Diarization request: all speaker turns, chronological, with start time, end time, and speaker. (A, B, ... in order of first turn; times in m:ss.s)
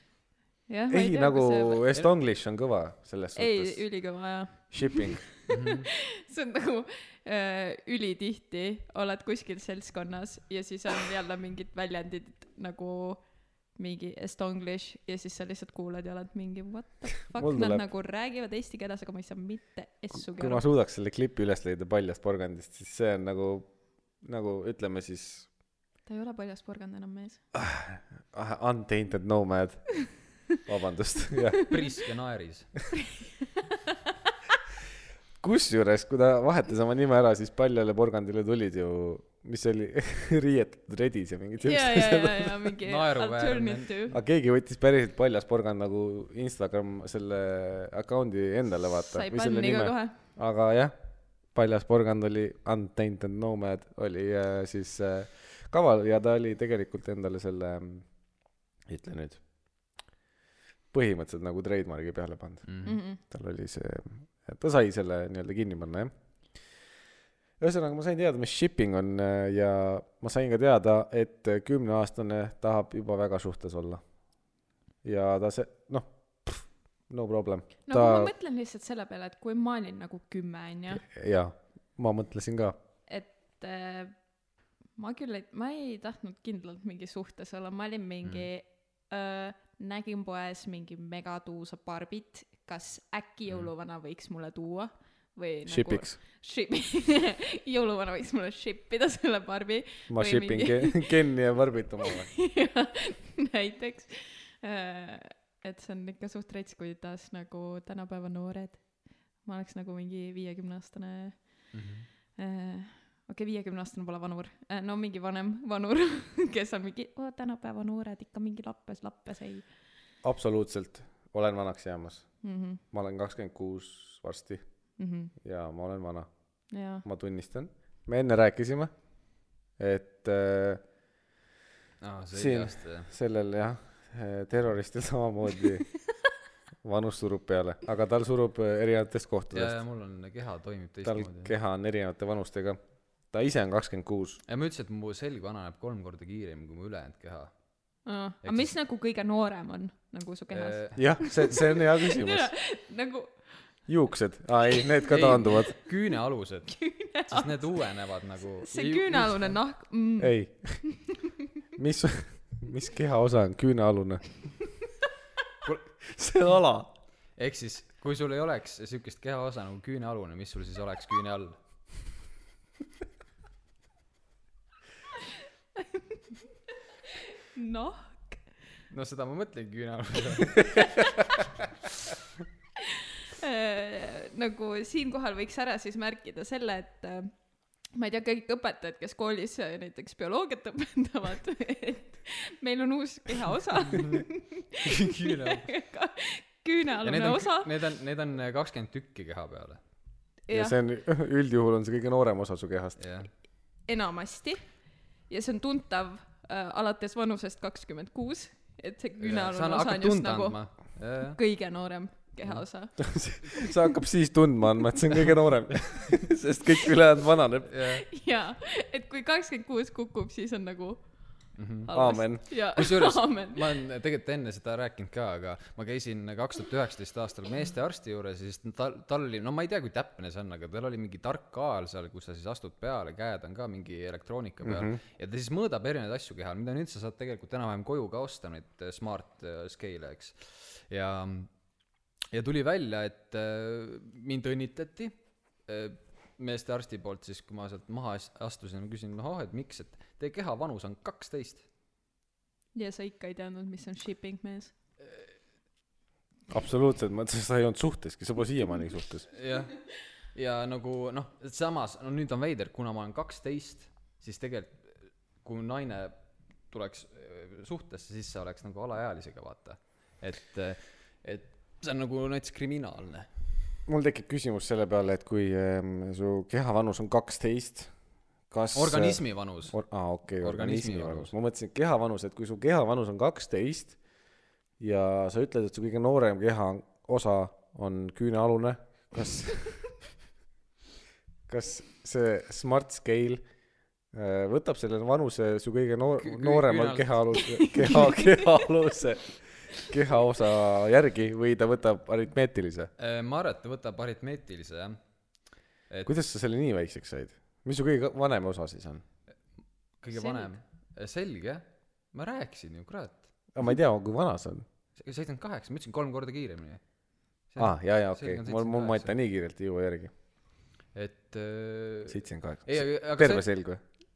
0:00.7-0:01.8 A
0:00.9-0:03.8 B
0:03.4-0:20.6 A
0:04.7-0:05.3 B
0:05.5-0:05.9 C
0:17.3-0:17.8 B
0:20.1-0:23.7 B
0:24.2-0:25.5 B
0:26.1-0:27.4 A
0:27.5-0:31.7 B
0:31.7-0:32.7 C
0:35.4-0:42.7 B
0:41.6-0:44.1 A
0:42.9-0:44.1 C
0:44.1-0:51.0 B
0:49.1-0:50.2 A
0:51.5-0:58.1 B
0:58.9-0:59.4 B
1:00.9-1:06.1 B
1:02.7-1:03.0 C
1:02.8-1:03.2 A
1:07.6-1:14.0 B
1:15.0-1:18.3 B
1:17.9-1:21.0 A
1:21.0-1:22.8 B
1:23.1-1:24.2 A
1:25.0-1:41.1 A
1:35.7-1:36.2 B
1:40.1-1:42.3 B
1:42.0-1:51.8 A
1:51.7-1:52.1 C
1:52.4-1:59.7 A
2:00.2-2:02.3 B
2:02.4-2:02.8 A
2:02.9-2:04.6 B
2:05.0-2:05.3 A
2:05.4-2:06.3 B
2:06.7-2:07.0 A
2:07.0-2:08.9 B
2:09.8-2:10.8 B
2:12.0-2:13.1 C
2:12.3-2:15.8 B
2:16.8-2:19.8 B
2:19.5-2:21.5 C
2:21.0-2:22.8 B
2:23.3-2:24.4 B
2:24.5-2:27.5 C
2:28.1-2:33.4 A
2:28.4-2:28.7 C
2:30.5-2:31.1 C
2:31.0-2:32.5 B
2:33.9-2:35.7 B
2:35.1-2:39.6 C
2:36.7-2:37.7 A
2:38.6-2:41.1 A
2:40.2-2:40.8 B
2:41.8-2:44.2 B
2:46.0-2:46.9 B
2:47.4-2:51.6 C
2:55.8-2:56.2 A
2:57.6-2:58.4 A
2:58.9-3:01.1 C
3:03.3-3:07.3 A
3:07.9-3:17.7 A
3:13.9-3:14.2 C
3:14.8-3:15.7 C
3:17.0-3:19.8 C
3:20.5-3:20.8 A
3:20.5-3:23.0 B
3:23.0-3:23.3 C
3:23.9-3:24.6 A
3:25.3-3:30.6 A
3:29.2-3:31.4 C
3:31.4-3:33.0 A
3:33.0-3:37.7 B
3:37.7-3:38.0 C
3:38.1-3:41.0 A
3:41.6-3:41.9 C
3:41.9-3:43.6 A
3:41.9-3:42.4 B
3:42.6-4:01.5 C
3:54.6-3:55.0 B
4:02.3-4:05.1 C
4:05.7-4:11.6 C
4:12.8-4:14.7 A
4:16.5-4:19.3 B
4:19.3-4:19.8 C
4:20.3-4:26.2 C
4:26.7-4:33.3 C
4:33.9-4:37.9 B
4:38.5-4:44.0 B
4:38.7-4:39.8 C
4:40.4-4:41.3 C
4:44.8-4:49.8 B
4:51.5-4:53.4 B
4:54.1-5:02.9 B
4:56.2-4:57.2 C
4:57.6-4:58.5 A
5:03.0-5:05.0 C
5:06.0-5:09.0 B
5:10.0-5:13.2 C
5:10.1-5:10.5 A
5:13.6-5:14.7 B
5:15.0-5:16.8 C
5:17.5-5:19.1 C
5:17.6-5:20.1 B
5:21.0-5:23.5 C
5:22.1-5:23.8 B